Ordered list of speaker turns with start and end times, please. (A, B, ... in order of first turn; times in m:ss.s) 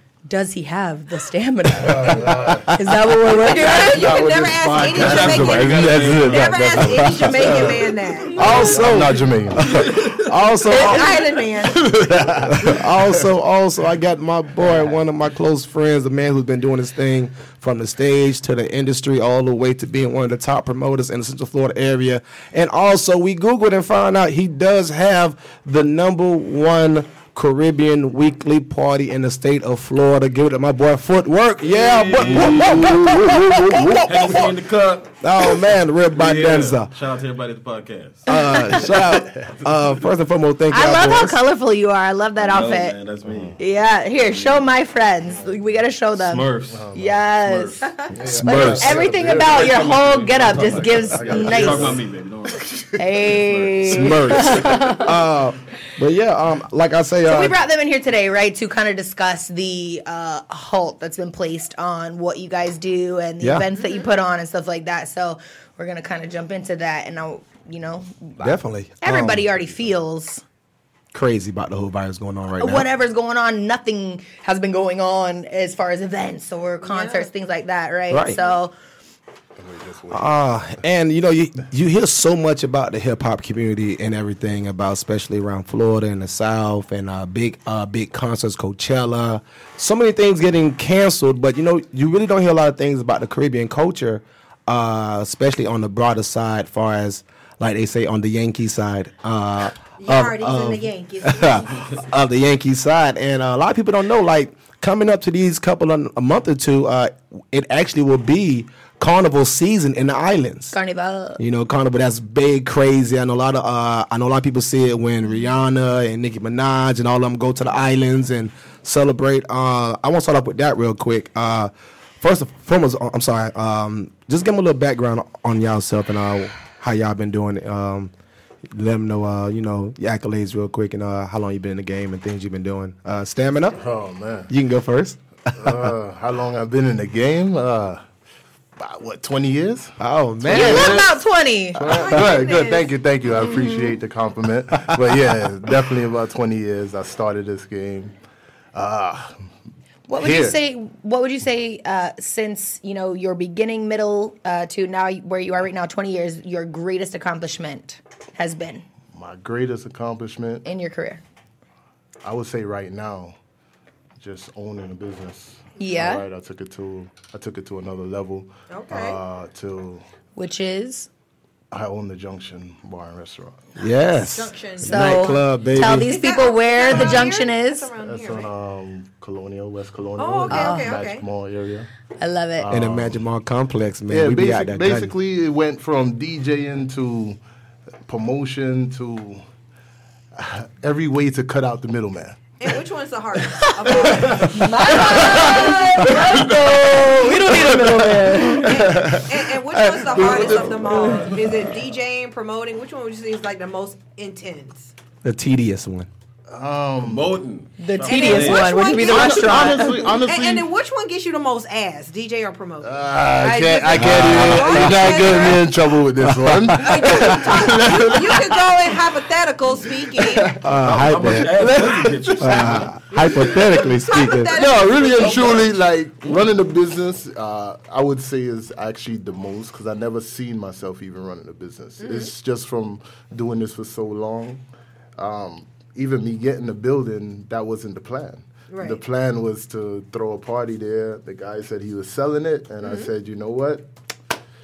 0:00.3-0:04.1 A
0:01.8-0:02.8 B
0:02.1-0:03.6 C
0:03.4-0:08.6 D
0:03.6-0:10.1 B
0:04.9-0:07.4 E
0:05.8-0:07.8 C
0:08.4-0:11.4 C
0:08.4-0:08.7 A
0:09.7-0:10.1 E
0:10.6-0:11.9 D
0:11.7-0:13.2 B
0:12.2-0:34.5 C
0:14.6-0:15.0 B
0:31.7-0:33.4 E
0:34.0-0:35.2 E
0:35.2-0:36.9 C
0:36.1-0:39.0 E
0:38.3-0:41.4 C
0:38.3-0:38.8 A
0:40.7-0:43.0 A
0:42.4-0:43.6 E
0:43.6-0:52.0 A
0:44.3-0:44.6 E
0:46.2-0:46.9 E
0:46.7-0:47.2 B
0:47.4-0:54.7 E
0:48.1-0:52.0 B
0:48.2-0:48.9 C
0:53.0-0:55.1 A
0:53.8-0:57.6 C
0:57.2-1:10.4 A
1:03.4-1:03.7 C
1:03.7-1:04.1 D
1:08.4-1:09.5 C
1:11.1-1:12.9 C
1:12.6-1:18.7 A
1:16.8-1:17.3 D
1:18.1-1:18.4 C
1:19.6-1:20.4 B
1:20.1-1:50.8 C
1:40.0-1:41.9 D
1:50.7-1:51.4 A
1:51.4-2:08.1 C
2:08.7-2:13.8 C
2:13.8-2:14.5 B
2:14.5-2:15.9 C
2:15.6-2:18.0 B
2:18.8-2:21.2 B
2:20.0-2:21.1 C
2:20.5-2:21.9 A
2:21.8-2:28.1 B
2:21.8-2:23.0 D
2:28.7-2:29.3 B
2:30.1-2:38.8 A
2:30.2-2:30.6 B
2:39.1-2:40.7 B
2:40.6-2:41.2 A
2:42.2-2:43.4 B
2:44.2-2:50.0 B
2:45.8-2:46.2 A
2:48.7-2:49.2 D
2:50.4-2:51.1 A
2:51.7-2:53.6 B
2:53.8-2:56.1 C
2:54.3-2:58.5 D
2:54.8-2:57.9 A
2:56.9-2:57.2 B
2:58.0-3:01.9 B
3:00.2-3:01.3 D
3:00.5-3:00.9 A
3:02.2-3:02.7 A
3:02.6-3:03.2 B
3:02.7-3:05.1 C
3:04.1-3:07.4 B
3:08.1-3:09.4 B
3:10.4-3:12.6 B
3:12.6-3:15.8 D
3:13.5-3:17.8 B
3:14.2-3:18.8 A
3:16.3-3:18.6 E
3:18.6-3:24.9 D
3:18.8-3:20.3 C
3:20.1-3:21.4 B
3:25.2-3:26.1 C
3:26.5-3:27.4 B
3:27.0-3:28.9 E
3:27.8-3:30.1 A
3:28.0-3:35.8 D
3:29.0-3:30.7 B
3:32.8-3:38.7 B
3:33.4-3:34.0 A
3:33.9-3:34.9 C
3:36.2-3:38.0 C
3:36.7-3:40.5 D
3:40.2-3:40.6 B
3:40.5-3:41.7 C
3:40.8-3:42.9 E
3:41.1-3:43.8 B
3:42.4-3:44.6 C
3:43.1-3:45.7 D
3:44.5-3:54.6 B
3:45.2-3:45.6 E
3:52.0-3:52.3 D
3:55.2-4:03.9 B
3:58.7-3:59.0 D
4:02.8-4:03.1 D